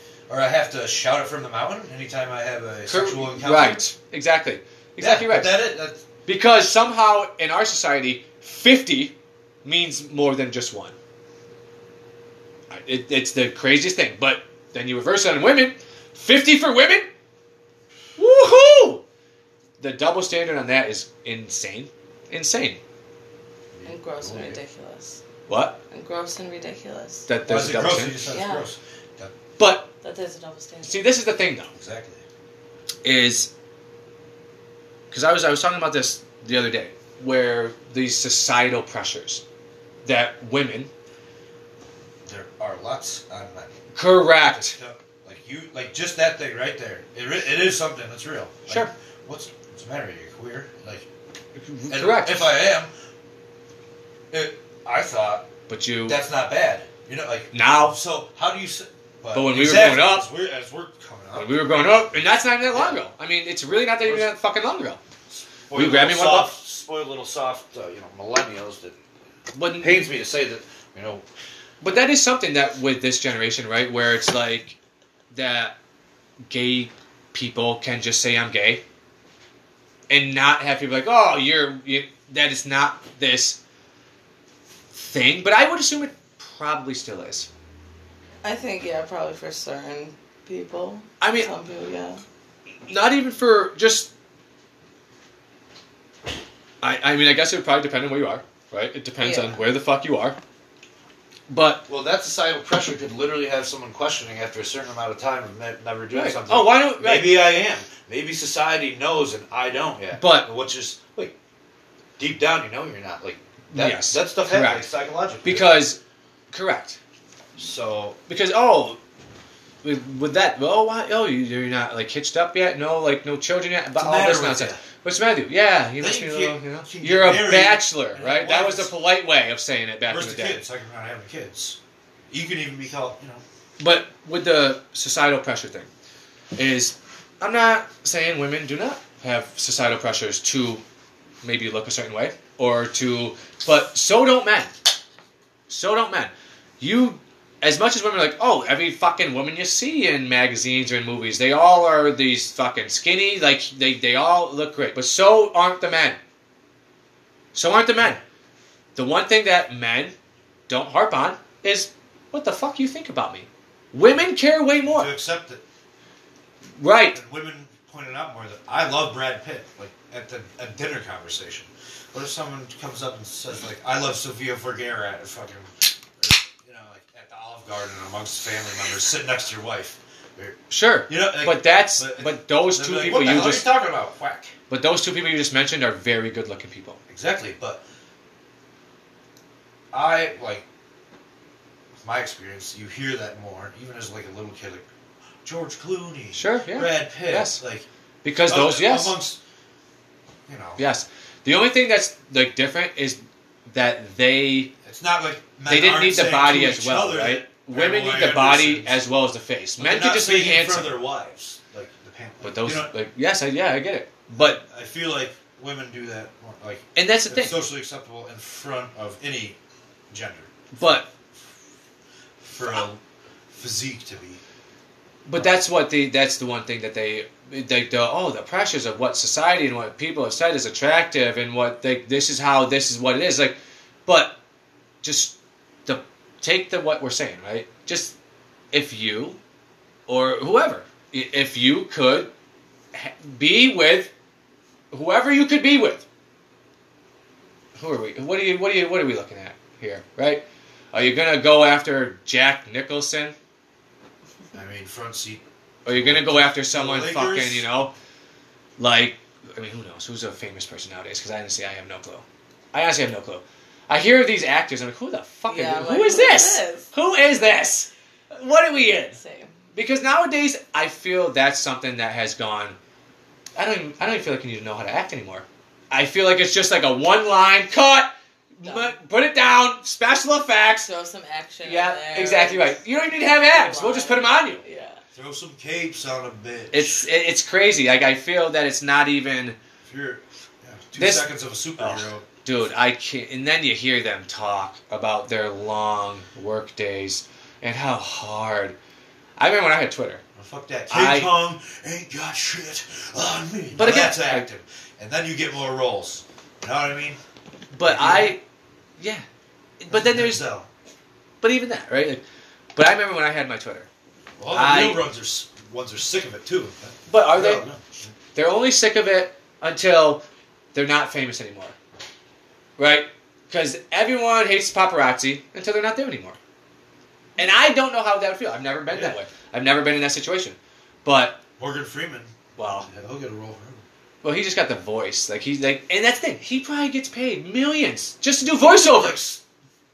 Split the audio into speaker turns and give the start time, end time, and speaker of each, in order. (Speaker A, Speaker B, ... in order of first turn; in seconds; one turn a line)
Speaker A: 0.3-3.8
Speaker B: 2.9-5.5
Speaker A: 5.0-6.0
Speaker B: 6.2-10.9
Speaker B: 12.7-17.1
Speaker B: 18.2-19.0
Speaker B: 19.8-22.8
Speaker A: 23.7-24.6
Speaker C: 23.8-25.2
Speaker B: 25.5-25.8
Speaker C: 25.9-27.3
Speaker B: 27.3-28.2
Speaker A: 27.5-29.3
Speaker C: 28.3-28.7
Speaker B: 29.6-29.9
Speaker C: 30.0-31.0
Speaker B: 30.8-31.7
Speaker A: 31.7-32.2
Speaker B: 33.0-33.5
Speaker B: 35.1-39.4
Speaker B: 40.0-40.9
Speaker A: 42.2-43.8
Speaker B: 43.9-44.8
Speaker A: 44.4-51.0
Speaker B: 51.5-52.5
Speaker A: 51.9-52.9
Speaker A: 54.3-55.5
Speaker B: 55.7-56.2
Speaker A: 56.0-63.0
Speaker B: 57.5-58.0
Speaker B: 59.3-60.3
Speaker B: 61.3-65.0
Speaker A: 64.0-64.3
Speaker A: 65.3-69.0
Speaker B: 65.7-66.5
Speaker B: 69.5-70.0
Speaker A: 69.8-71.2
Speaker B: 71.8-74.8
Speaker B: 75.3-75.8
Speaker B: 76.5-78.8
Speaker B: 80.1-83.6
Speaker B: 84.9-87.5
Speaker C: 88.4-92.2
Speaker B: 91.2-91.5
Speaker B: 92.9-94.1
Speaker B: 96.8-100.4
Speaker C: 99.2-99.6
Speaker B: 101.5-101.8
Speaker A: 101.9-111.3
Speaker B: 106.1-107.4
Speaker B: 110.1-110.5
Speaker A: 112.2-115.7
Speaker B: 113.7-114.8
Speaker B: 115.4-116.0
Speaker B: 116.5-117.0
Speaker A: 117.6-118.2
Speaker B: 118.3-119.0
Speaker B: 119.8-130.6
Speaker A: 124.0-124.8
Speaker A: 126.0-128.9
Speaker A: 130.1-131.8
Speaker A: 132.3-133.4
Speaker B: 133.8-135.9
Speaker B: 136.5-140.8
Speaker B: 141.4-144.7
Speaker B: 145.7-156.2
Speaker B: 157.5-158.2
Speaker B: 158.9-160.1
Speaker B: 160.7-165.1
Speaker A: 164.8-165.6
Speaker B: 166.8-167.2
Speaker A: 167.1-184.5
Speaker B: 180.7-183.7
Speaker B: 184.7-187.0
Speaker A: 187.1-187.8
Speaker A: 189.9-190.6
Speaker A: 192.0-194.8
Speaker A: 195.4-197.8
Speaker B: 196.3-197.6
Speaker B: 198.2-199.2
Speaker A: 198.4-199.4
Speaker A: 200.5-200.8
Speaker B: 200.8-204.7
Speaker A: 204.8-209.1
Speaker B: 205.7-211.0
Speaker A: 209.8-212.9
Speaker B: 212.4-214.6
Speaker A: 214.3-219.6
Speaker B: 216.9-217.6
Speaker A: 220.1-221.0
Speaker B: 220.7-221.1
Speaker A: 222.4-224.4
Speaker B: 225.2-234.3
Speaker B: 235.0-238.1
Speaker B: 238.7-239.4
Speaker B: 240.1-242.3
Speaker B: 242.9-244.1
Speaker B: 244.9-246.0
Speaker B: 247.8-253.3
Speaker A: 254.5-257.8
Speaker B: 255.8-257.9
Speaker B: 258.8-269.2
Speaker C: 265.5-266.9
Speaker C: 269.2-269.6
Speaker B: 269.7-272.8
Speaker B: 273.6-280.9
Speaker C: 278.6-278.9
Speaker C: 280.8-285.0
Speaker B: 281.6-284.6
Speaker A: 285.1-287.1
Speaker B: 286.7-289.6
Speaker A: 289.8-292.2
Speaker B: 290.9-298.8
Speaker B: 299.4-300.2
Speaker A: 300.4-307.2
Speaker B: 300.9-301.3
Speaker B: 303.7-304.5
Speaker B: 307.7-308.4
Speaker A: 307.8-308.4
Speaker B: 309.0-309.2
Speaker B: 309.8-310.4
Speaker A: 309.9-310.7
Speaker B: 311.4-312.2
Speaker B: 312.7-313.9
Speaker A: 314.4-318.1
Speaker B: 314.5-315.0
Speaker B: 317.1-317.6
Speaker B: 318.3-321.7
Speaker B: 322.8-326.4
Speaker B: 327.4-331.4
Speaker A: 328.9-329.2
Speaker A: 331.6-333.8
Speaker B: 332.6-332.9
Speaker B: 334.2-339.2
Speaker A: 338.5-339.4